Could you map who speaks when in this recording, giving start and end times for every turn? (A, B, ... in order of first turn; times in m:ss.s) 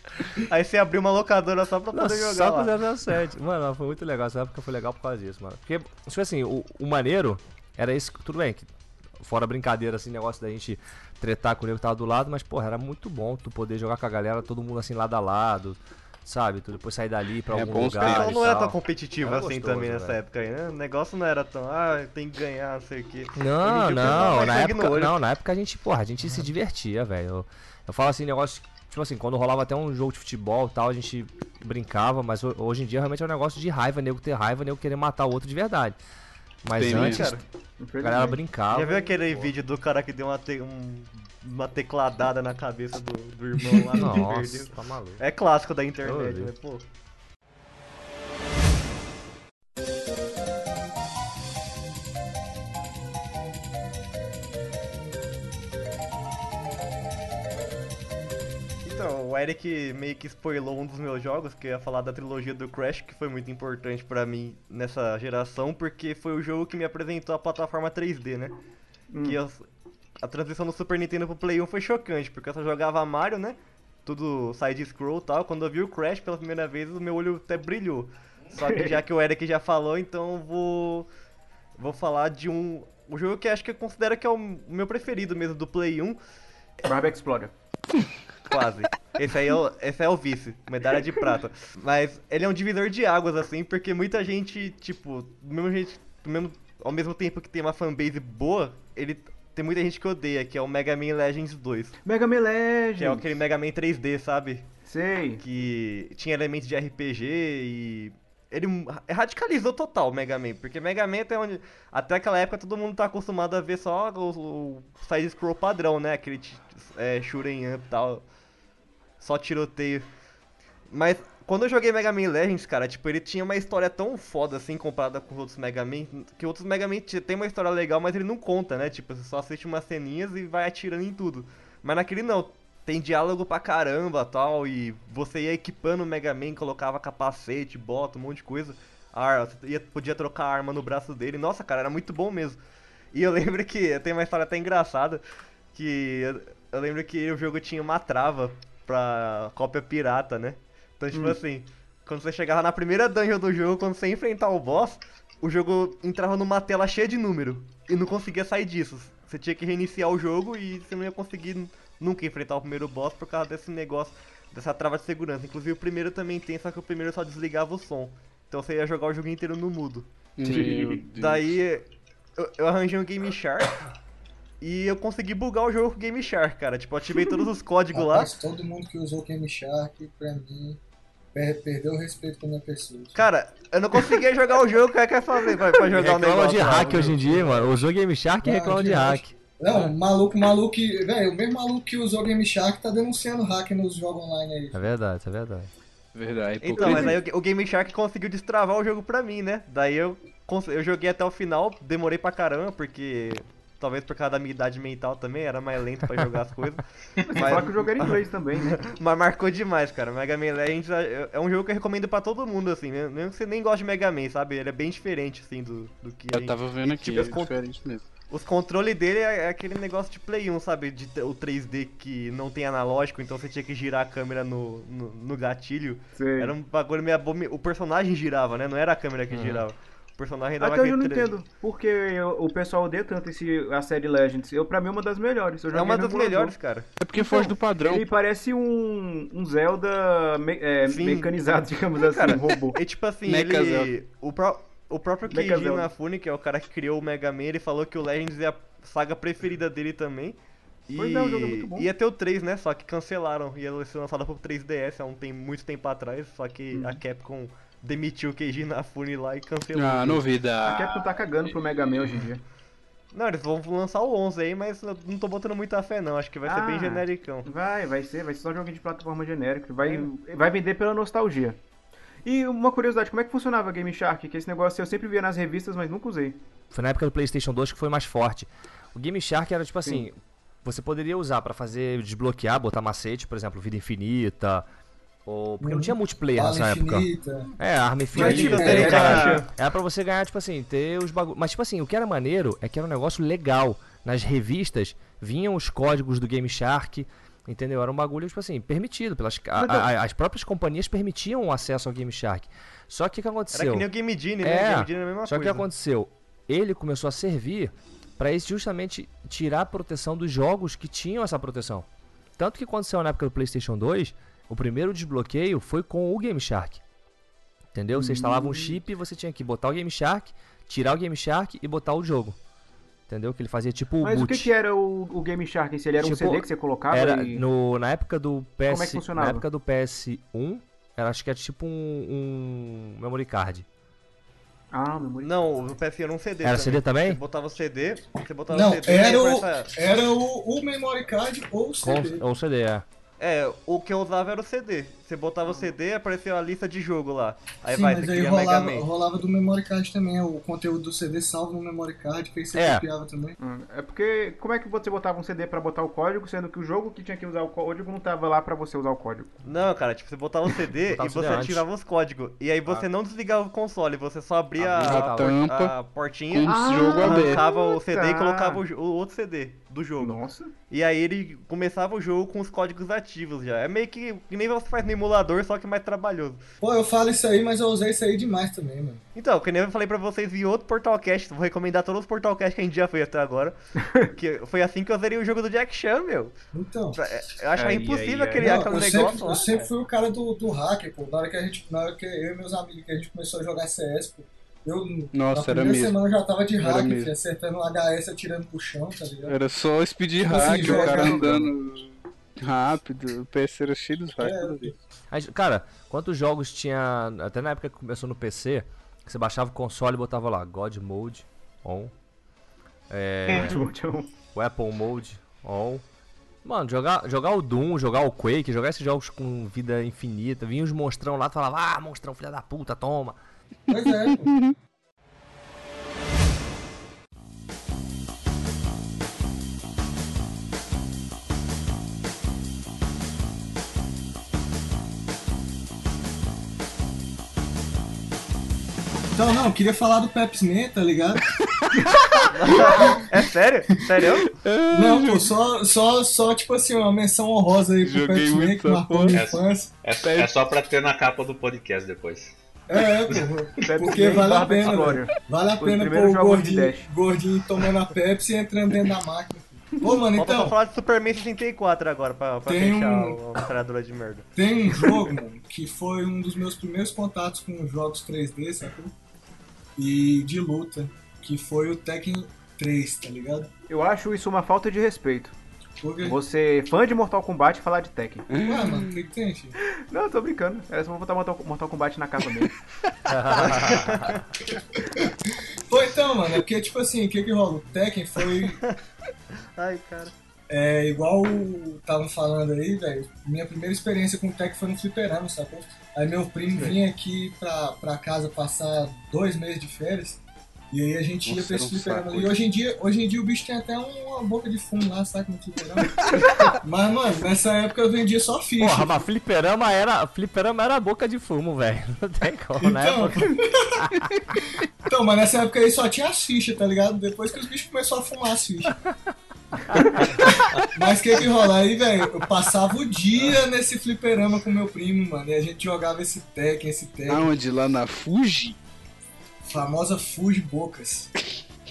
0:00.4-0:02.7 A
0:01.9-0:20.2 B
0:17.5-0:18.4 C
0:18.0-0:25.2 A
0:23.3-0:36.0 B
0:36.6-0:37.4 B
0:36.8-0:37.2 C
0:36.9-0:37.4 A
0:37.8-0:38.4 D
0:38.0-0:39.5 B
0:38.7-0:46.8 A
0:43.9-0:45.2 B
0:46.0-0:46.5 B
0:58.8-1:08.5 A
1:09.1-1:09.4 D
1:09.2-1:09.6 A
1:10.2-1:21.1 A
1:18.5-1:19.0 D
1:21.8-1:26.2 A
1:26.8-1:27.5 D
1:28.5-1:41.9 A
1:42.0-1:43.2 D
1:43.0-1:44.7 A
1:44.8-1:45.4 D
1:45.4-1:58.2 A
1:59.2-2:00.1 A
2:00.9-2:22.6 A
2:23.1-2:25.2 A
2:25.7-2:51.8 A
2:31.1-2:31.4 D
2:50.4-2:51.6 C
2:50.5-2:50.8 D
2:52.4-2:53.8 A
2:54.6-2:58.3 A
2:57.9-3:00.8 E
3:01.3-3:03.2 E
3:03.1-3:07.6 A
3:05.9-3:09.9 B
3:08.4-3:14.7 E
3:14.7-3:15.7 B
3:16.1-3:17.2 C
3:16.6-3:37.5 A
3:16.8-3:17.1 D
3:27.3-3:28.8 D
3:36.3-3:38.0 C
3:38.3-3:51.3 A
3:46.2-3:46.5 D
3:50.6-3:56.5 D
3:55.7-3:56.9 A
3:57.0-3:58.1 C
3:57.2-4:02.8 D
4:00.9-4:01.3 A
4:02.0-4:10.4 A
4:03.2-4:03.9 C
4:05.3-4:05.9 D
4:10.9-4:20.2 A
4:10.9-4:11.9 D
4:16.7-4:17.0 D
4:19.7-4:21.1 C
4:20.6-4:22.4 D
4:23.1-4:27.5 A
4:26.4-4:31.6 D
4:29.8-4:30.1 A
4:32.2-4:36.4 D
4:36.7-4:44.6 B
4:45.2-4:47.1 B
4:45.6-4:47.5 E
4:47.6-5:03.9 B
4:48.1-4:49.2 E
4:48.2-4:49.5 D
4:48.2-4:49.4 A
4:59.6-4:59.9 D
5:03.5-5:05.6 A
5:04.4-5:11.9 B
5:12.4-5:16.8 B
5:17.7-5:22.4 B
5:17.9-5:18.8 D
5:23.1-5:24.5 B
5:24.0-5:27.4 D
5:26.0-5:33.6 B
5:28.7-5:29.4 D
5:34.7-5:35.3 D
5:35.2-5:39.7 A
5:36.4-5:37.2 B
5:38.5-5:42.2 E
5:41.8-5:42.8 B
5:43.2-5:48.8 A
5:47.7-5:53.4 E
5:52.5-5:52.8 B
5:53.4-5:59.4 D
5:59.4-6:10.2 A
6:00.9-6:01.6 B
6:04.6-6:05.4 B
6:04.8-6:05.7 C
6:06.3-6:07.4 C
6:06.4-6:08.6 D
6:10.0-6:10.5 D
6:10.7-6:16.4 A
6:16.6-6:19.0 E
6:19.1-6:23.6 A
6:23.8-6:24.1 D
6:24.1-6:26.3 A
6:26.5-6:27.0 E
6:27.0-6:29.6 A
6:27.5-6:28.9 D
6:28.4-6:39.4 E
6:35.1-6:36.0 C
6:36.6-6:37.1 C
6:39.3-6:44.7 C
6:40.2-6:41.5 E
6:44.2-6:44.7 E
6:45.1-6:51.9 B
6:52.9-6:53.6 B
6:53.3-6:54.1 D
6:54.3-6:55.8 B
6:56.4-7:03.2 B
7:03.7-7:04.4 E
7:03.7-7:04.5 C
7:19.1-7:21.2 E
7:22.3-7:24.3 A
7:22.7-7:23.0 E
7:24.4-7:25.3 C
7:24.7-7:29.7 E
7:27.8-7:29.2 C
7:29.1-7:32.3 F
7:30.0-7:30.3 C
7:32.7-7:40.6 E
7:33.6-7:36.9 D
7:40.1-7:44.3 A
7:42.4-7:43.2 E
7:44.4-7:48.9 E
7:49.8-7:53.5 E
7:53.7-7:55.3 D
7:55.8-7:56.2 E
7:56.0-7:58.3 D
7:58.3-7:58.9 C
7:58.4-7:59.6 E
7:59.8-8:02.5 D
8:03.1-8:04.2 B
8:03.4-8:04.2 A
8:05.0-8:08.6 E
8:09.6-8:10.1 A
8:10.5-8:28.9 E
8:21.2-8:22.3 C
8:28.6-8:33.9 B
8:32.6-8:33.8 E
8:34.8-8:38.8 E
8:40.0-8:47.3 E
8:47.1-8:48.6 C
8:49.4-8:51.1 E